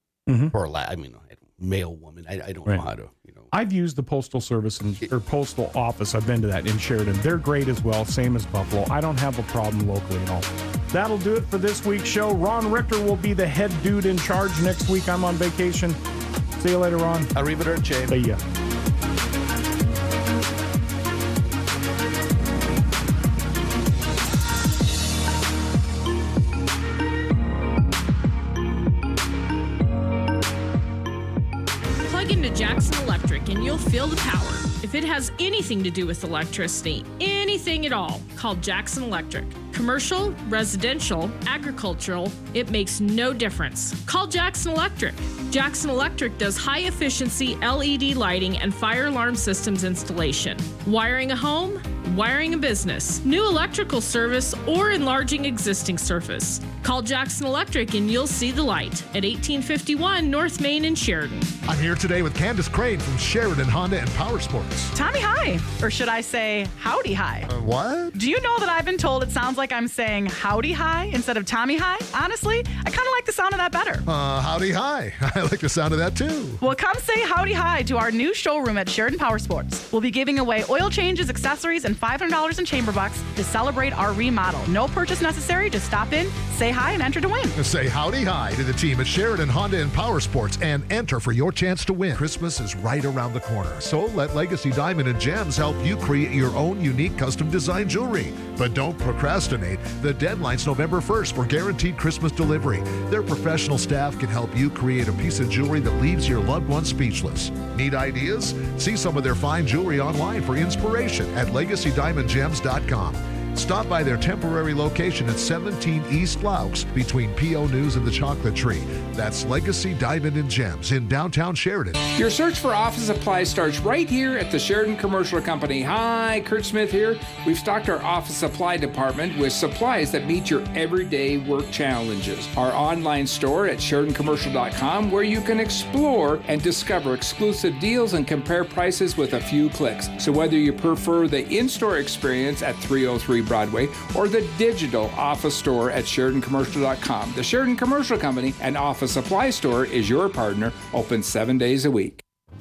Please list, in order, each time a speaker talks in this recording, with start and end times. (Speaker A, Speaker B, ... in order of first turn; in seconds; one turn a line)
Speaker A: 0.3-0.5
Speaker B: 0.5-3.5
Speaker A: 3.5-16.0
Speaker A: 16.6-17.3
Speaker B: 17.3-18.1
Speaker A: 18.1-18.4
Speaker C: 32.0-61.5
Speaker D: 61.7-64.9
Speaker E: 64.9-67.5
Speaker D: 67.5-68.2
Speaker E: 68.1-74.0
Speaker D: 74.0-76.6
Speaker E: 76.6-87.5
Speaker D: 87.5-122.0
Speaker F: 122.2-152.2